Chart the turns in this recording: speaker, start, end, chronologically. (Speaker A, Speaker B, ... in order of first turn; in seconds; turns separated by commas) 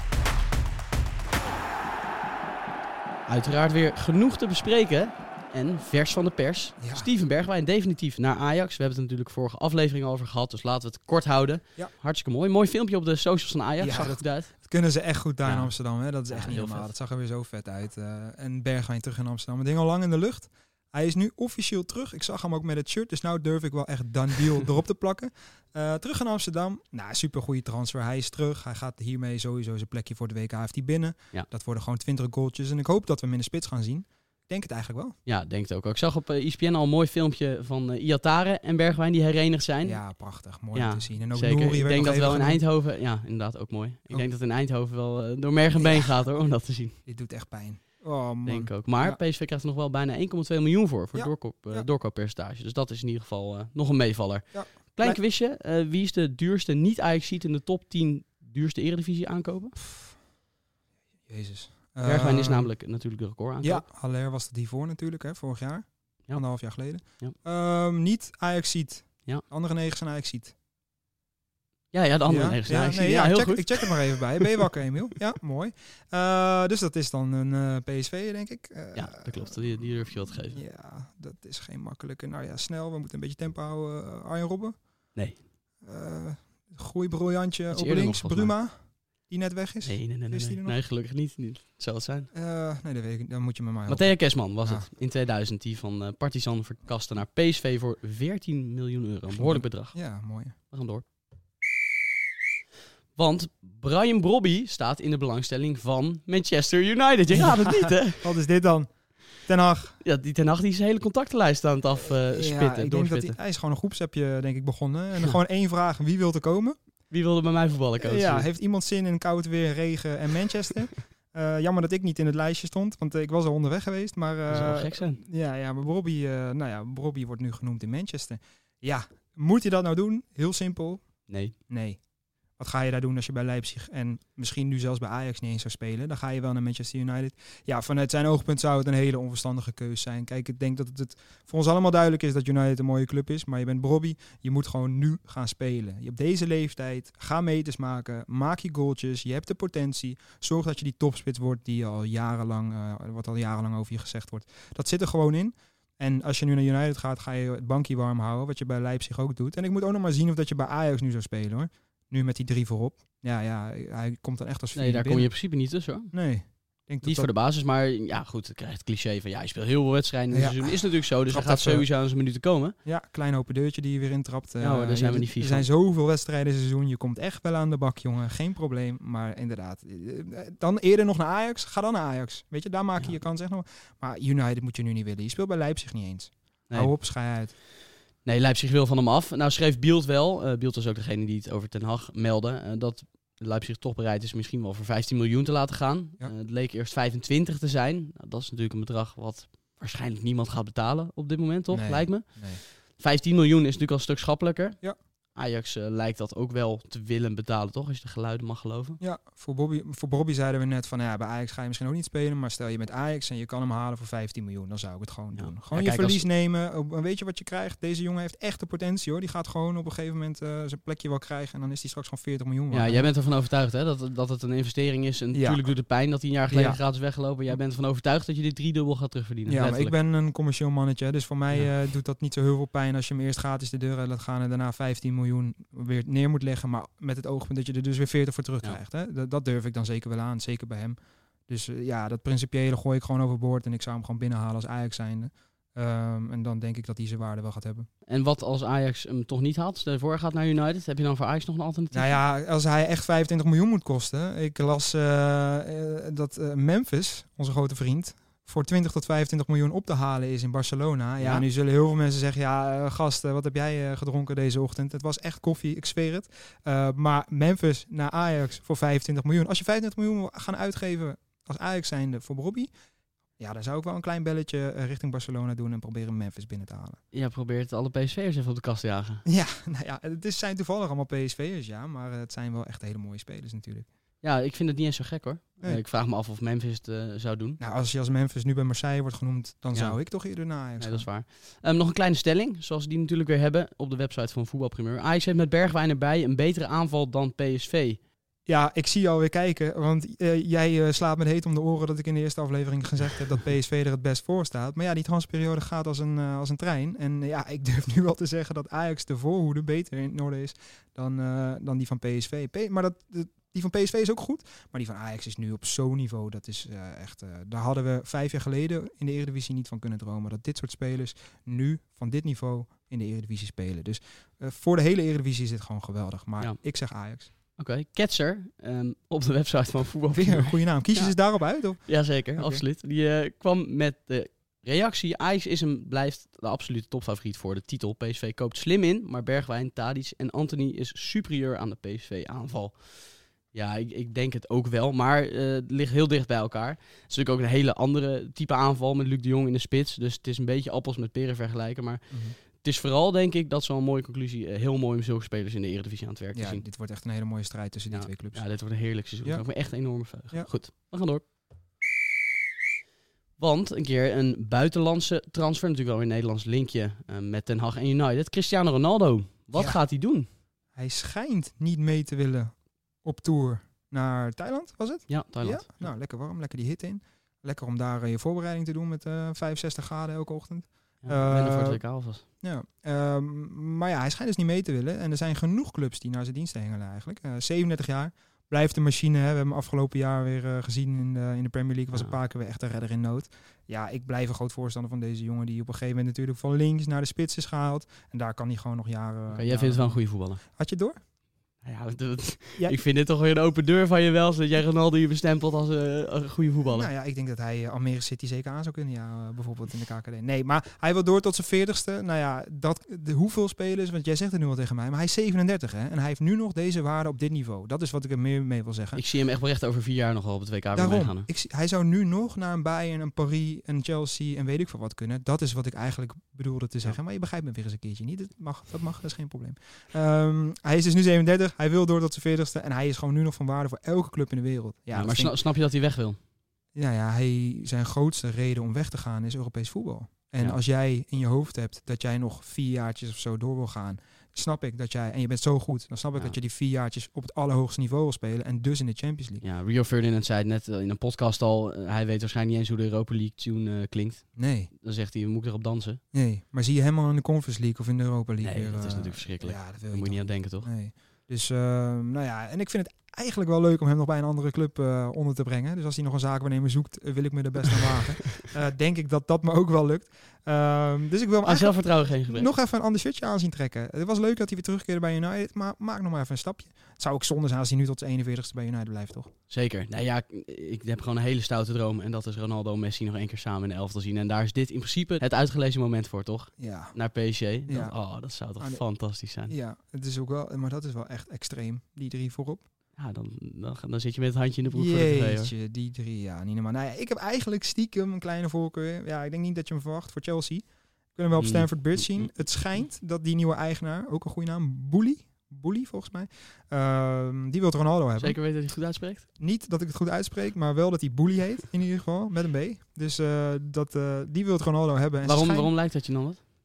Speaker A: 3.3-14.5, Speaker B: 6.8-7.1, Speaker B: 13.8-35.2, Speaker A: 15.4-15.7, Speaker A: 16.3-16.9, Speaker A: 35.3-40.0, Speaker B: 39.8-42.6, Speaker A: 40.8-47.0, Speaker B: 45.8-46.3, Speaker B: 47.0-49.2, Speaker A: 48.5-59.8, Speaker B: 51.1-51.9, Speaker B: 54.5-55.2, Speaker B: 59.9-60.1, Speaker B: 61.3-62.7, Speaker A: 62.0-63.8, Speaker B: 63.6-70.5, Speaker A: 71.9-74.5, Speaker B: 72.3-84.8, Speaker A: 79.0-80.6, Speaker A: 85.2-85.4, Speaker B: 85.8-90.8, Speaker A: 87.7-88.5, Speaker A: 89.8-92.3, Speaker B: 92.3-94.9, Speaker A: 93.9-100.0, Speaker B: 99.3-100.5, Speaker A: 100.7-101.0, Speaker A: 103.2-108.3, Speaker B: 107.3-108.9, Speaker B: 109.4-110.0, Speaker A: 110.0-113.4, Speaker B: 112.3-116.8, Speaker A: 117.1-118.5, Speaker B: 118.0-131.2, Speaker A: 124.5-125.2, Speaker A: 131.3-131.6, Speaker B: 131.7-132.0, Speaker B: 132.6-165.3, Speaker A: 164.8-166.1, Speaker B: 166.1-167.3, Speaker A: 167.0-172.8, Speaker B: 170.3-171.9, Speaker B: 172.9-187.5, Speaker A: 174.6-175.7, Speaker A: 188.2-204.8, Speaker B: 201.7-202.6, Speaker A: 205.3-209.0, Speaker B: 209.0-223.1, Speaker A: 215.4-216.2, Speaker A: 222.7-229.9, Speaker B: 225.3-225.6, Speaker B: 226.5-226.8, Speaker B: 229.5-241.0, Speaker B: 241.5-247.9, Speaker A: 248.1-252.2, Speaker B: 251.9-272.7, Speaker A: 261.2-261.4, Speaker B: 273.4-277.0, Speaker A: 277.1-279.2, Speaker B: 279.3-283.9, Speaker A: 284.2-287.6, Speaker B: 287.6-291.1, Speaker A: 290.8-298.0, Speaker B: 298.5-327.3, Speaker A: 327.6-331.2, Speaker B: 330.1-332.6, Speaker A: 331.9-342.9, Speaker A: 343.5-356.6, Speaker B: 352.1-352.4, Speaker B: 356.3-358.4, Speaker A: 357.9-361.2, Speaker A: 363.4-370.3, Speaker B: 369.6-369.8, Speaker B: 370.8-381.8, Speaker A: 375.1-375.9, Speaker A: 381.0-382.2, Speaker B: 382.4-400.0, Speaker A: 399.3-400.4, Speaker B: 400.6-401.0, Speaker A: 401.6-406.9, Speaker B: 406.6-419.0, Speaker A: 419.0-421.3, Speaker B: 420.8-435.4, Speaker A: 434.9-436.2, Speaker B: 436.8-449.4, Speaker A: 449.4-456.0, Speaker B: 454.4-454.7, Speaker B: 456.1-479.3, Speaker A: 458.4-460.7, Speaker A: 471.4-472.5, Speaker A: 479.5-489.5, Speaker B: 486.6-486.9, Speaker B: 487.7-487.9, Speaker B: 488.6-488.9, Speaker B: 489.5-492.6, Speaker A: 493.0-495.5, Speaker B: 494.7-500.6, Speaker B: 501.2-508.4, Speaker A: 501.4-502.3, Speaker A: 508.2-509.3, Speaker B: 509.4-515.7, Speaker A: 515.2-516.4